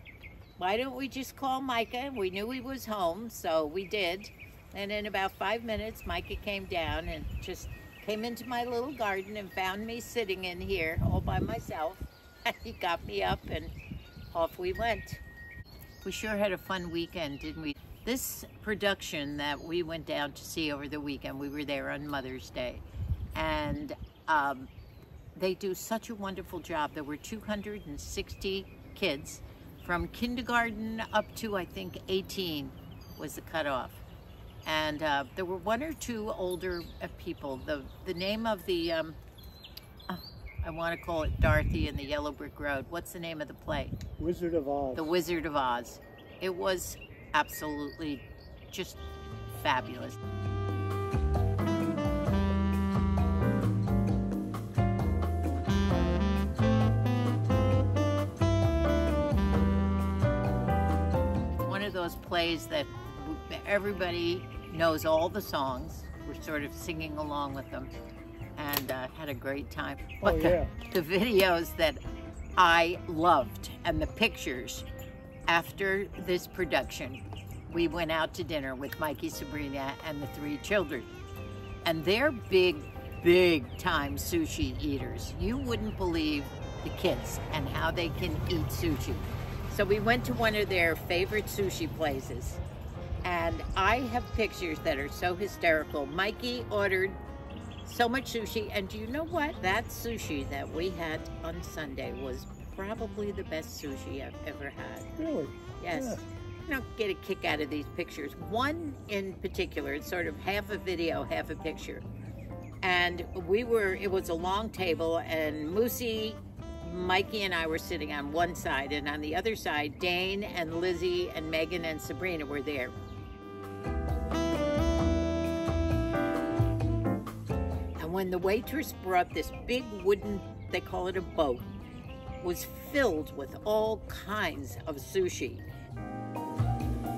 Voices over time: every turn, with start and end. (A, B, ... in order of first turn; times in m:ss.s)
0:00.6-0:13.7 A
0:14.3-0:15.2 A
0:16.0-0:24.7 A
0:25.4-0:34.0 A
0:34.6-0:39.2 A
0:40.1-0:44.0 A
0:44.2-0:45.1 B
0:44.9-0:50.2 A
1:01.6-1:07.9 A
1:08.6-1:12.0 A
1:10.2-1:10.7 B
1:12.6-1:14.8 A
1:15.5-1:21.1 A
1:21.8-1:32.6 A
1:33.2-1:37.2 A
1:37.8-1:45.1 A
1:45.2-1:46.2 B
1:45.8-1:52.0 A
1:52.8-2:02.9 A
2:08.0-2:11.7 A
2:12.4-2:15.6 A